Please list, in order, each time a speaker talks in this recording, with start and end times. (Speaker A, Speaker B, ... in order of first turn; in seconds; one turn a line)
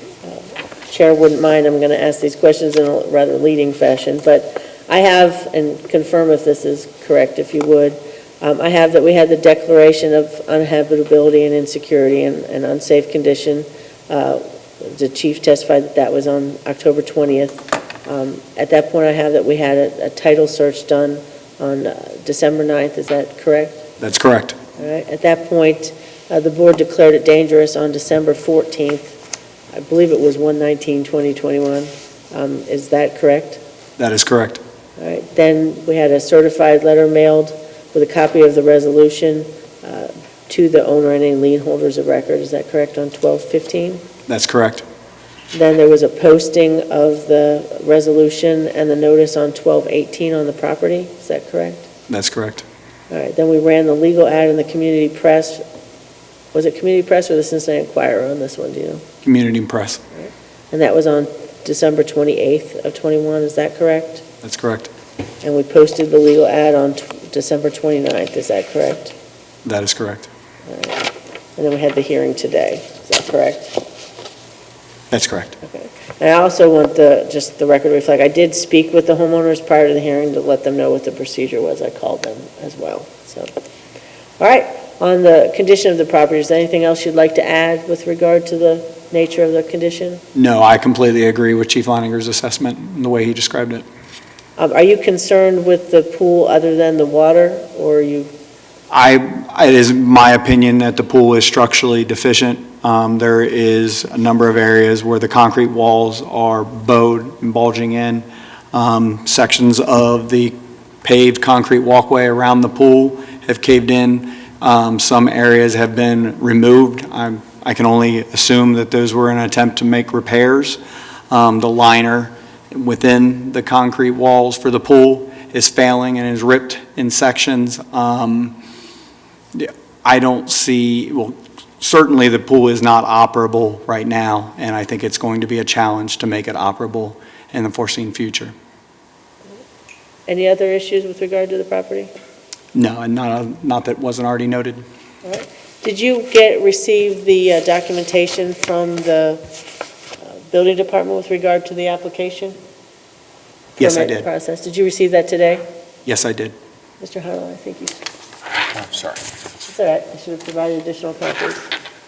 Speaker A: 0.2-23.9
Speaker B: 24.0-24.6
Speaker A: 24.8-29.2
Speaker A: 29.7-33.6
Speaker B: 34.0-34.6
Speaker A: 35.0-44.0
Speaker B: 44.3-44.8
Speaker A: 45.5-51.9
Speaker B: 52.1-52.6
Speaker A: 53.1-55.6
Speaker A: 56.5-59.0
Speaker B: 59.2-60.0
Speaker A: 60.1-64.2
Speaker B: 64.4-64.9
Speaker A: 65.4-69.1
Speaker B: 69.6-70.3
Speaker A: 70.7-71.0
Speaker A: 71.6-73.8
Speaker B: 75.1-75.6
Speaker A: 75.6-83.5
Speaker A: 84.4-90.2
Speaker B: 90.3-93.8
Speaker A: 94.6-98.3
Speaker B: 98.9-120.8
Speaker B: 121.3-128.6
Speaker B: 129.5-138.5
Speaker A: 140.3-142.1
Speaker B: 142.7-144.8
Speaker A: 145.2-149.4
Speaker A: 150.2-152.6
Speaker B: 153.8-154.3
Speaker A: 153.8-155.6
Speaker B: 156.1-156.5
Speaker A: 157.0-158.0
Speaker B: 158.8-159.2
Speaker A: 159.6-161.7